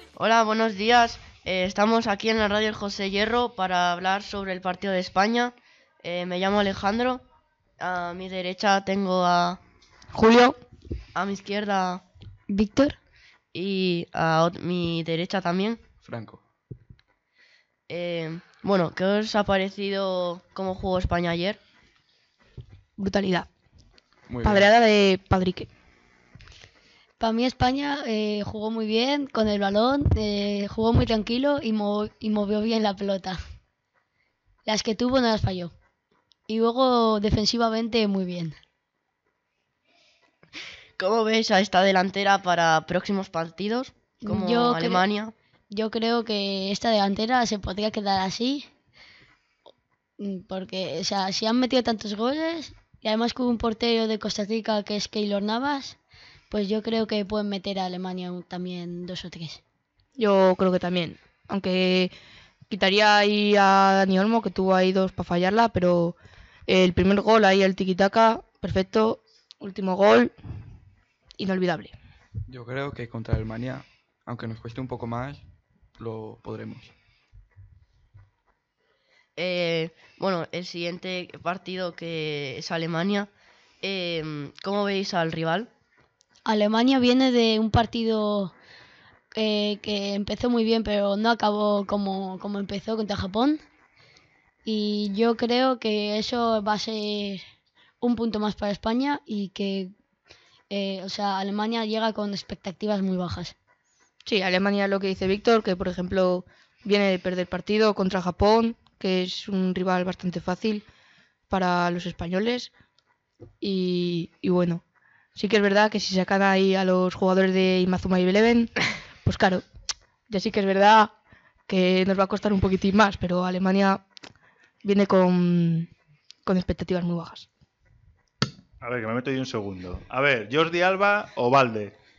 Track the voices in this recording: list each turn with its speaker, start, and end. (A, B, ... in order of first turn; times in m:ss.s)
0:00.2-0:07.2 A
0:07.8-0:09.6 A
0:10.1-0:10.6 B
0:11.1-0:12.0 A
0:12.5-0:13.0 C
0:13.5-0:15.8 A
0:16.0-0:16.4 D
0:17.9-0:21.6 A
0:23.0-0:23.5 B
0:24.3-0:24.7 D
0:24.4-0:25.7 B
0:27.2-0:33.4 C
0:34.6-0:35.7 C
0:36.5-0:38.6 C
0:41.0-0:45.3 A
0:44.2-0:45.0 C
0:45.7-0:48.6 C
0:50.2-0:56.0 C
0:56.5-0:59.6 C
1:00.2-1:02.1 B
1:02.7-1:06.2 B
1:06.7-1:10.3 B
1:11.4-1:11.9 B
1:12.5-1:15.4 D
1:16.0-1:16.9 D
1:19.4-1:23.3 A
1:23.8-1:25.7 A
1:26.4-1:28.5 C
1:29.4-1:33.6 C
1:34.6-1:37.4 C
1:38.0-1:39.9 C
1:40.7-1:43.5 C
1:44.2-1:50.8 B
1:51.5-1:52.7 B
1:53.6-1:54.8 B
1:55.3-1:59.6 B
2:00.3-2:01.1 B
2:01.7-2:04.0 B
2:04.8-2:05.9 B
2:06.4-2:07.5 B
2:08.8-2:11.9 E